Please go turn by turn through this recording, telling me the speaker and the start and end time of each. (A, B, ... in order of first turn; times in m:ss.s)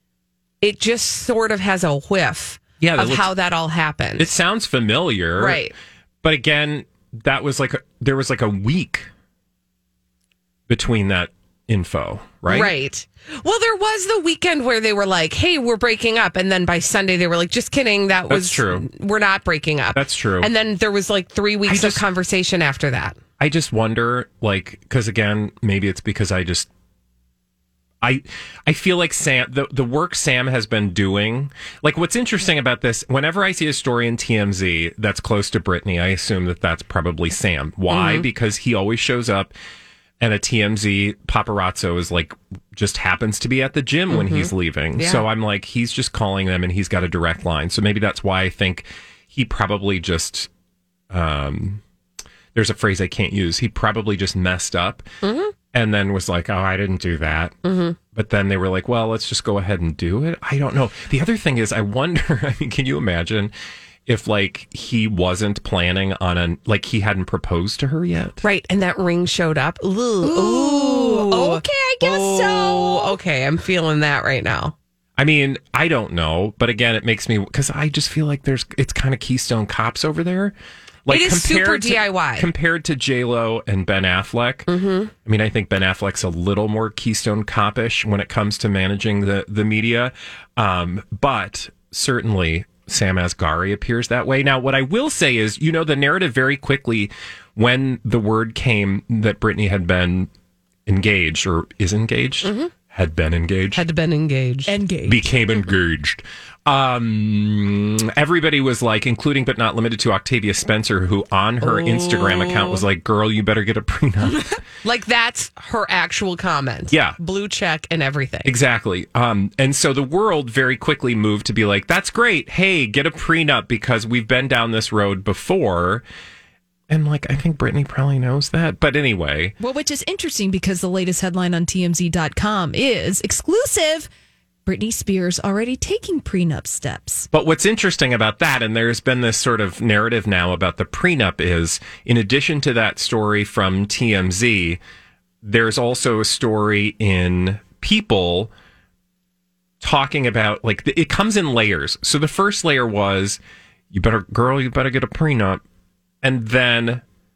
0:00.6-0:04.3 A
0:02.8-0:03.3 B
0:04.2-0:05.6 B
0:05.4-0:05.7 A
0:06.2-0:09.1 B
0:10.7-0:12.7 B
0:12.5-0:23.2 A
0:18.3-0:18.9 B
0:20.0-0:20.5 B
0:21.7-0:22.0 B
0:23.4-0:26.7 B
0:28.0-0:39.5 B
0:37.9-0:38.3 A
0:40.2-0:50.5 B
0:44.1-0:45.2 A
0:51.1-0:51.8 B
0:52.5-0:55.1 B
0:55.2-0:55.5 A
0:55.7-0:57.6 B
0:57.6-0:58.0 A
0:58.1-1:03.5 B
1:04.1-1:08.4 B
1:08.4-1:14.8 A
1:10.2-1:13.2 C
1:15.2-1:20.6 B
1:21.1-1:24.7 B
1:21.1-1:22.5 A
1:24.7-1:25.1 A
1:25.2-1:40.3 B
1:40.9-1:43.8 B
1:42.4-1:42.7 A
1:43.8-1:44.8 A
1:44.7-1:45.2 C
1:45.1-1:54.6 B
1:51.6-1:52.8 A
1:54.8-1:58.5 A
1:56.9-1:57.2 B
1:58.4-2:06.0 B
2:06.9-2:09.5 B
2:09.6-2:14.1 C
2:14.7-2:17.3 C
2:17.3-2:24.8 B
2:25.4-2:28.5 B
2:29.8-2:33.4 B
2:33.9-2:35.6 B
2:36.2-2:37.0 B